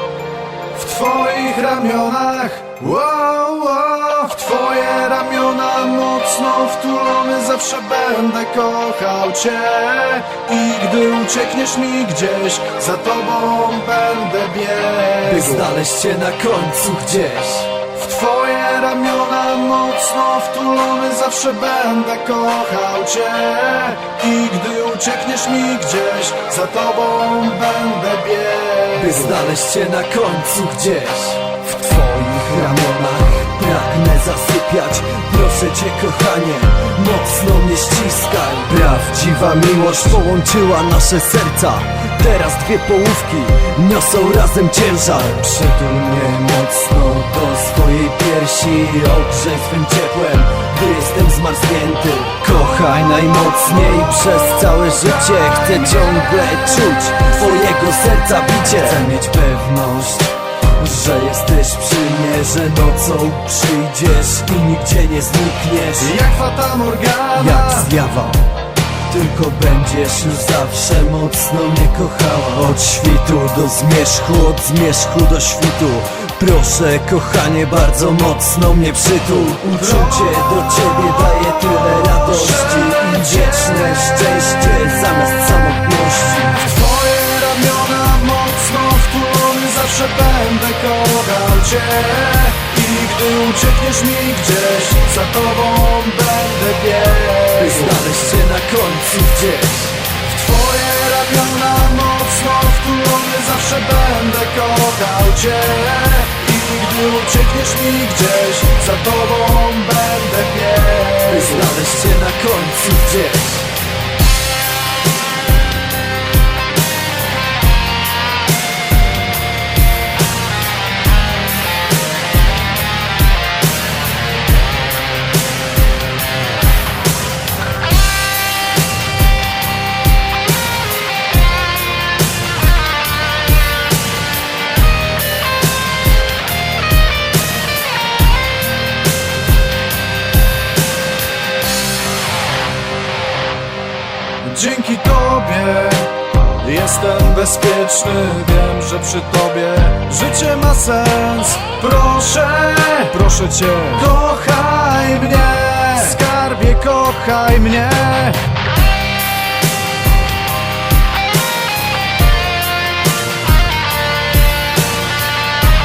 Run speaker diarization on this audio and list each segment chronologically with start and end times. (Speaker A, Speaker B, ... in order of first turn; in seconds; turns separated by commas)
Speaker A: 0.7-15.7, Speaker B: 15.2-17.8, Speaker A: 17.9-29.4, Speaker B: 29.0-66.2, Speaker A: 66.0-67.9, Speaker B: 67.3-68.4, Speaker B: 69.1-86.6, Speaker A: 79.8-80.4, Speaker A: 82.1-84.0, Speaker A: 86.6-98.0, Speaker B: 97.6-100.0, Speaker A: 100.2-111.7, Speaker B: 111.2-113.7, Speaker A: 144.4-158.4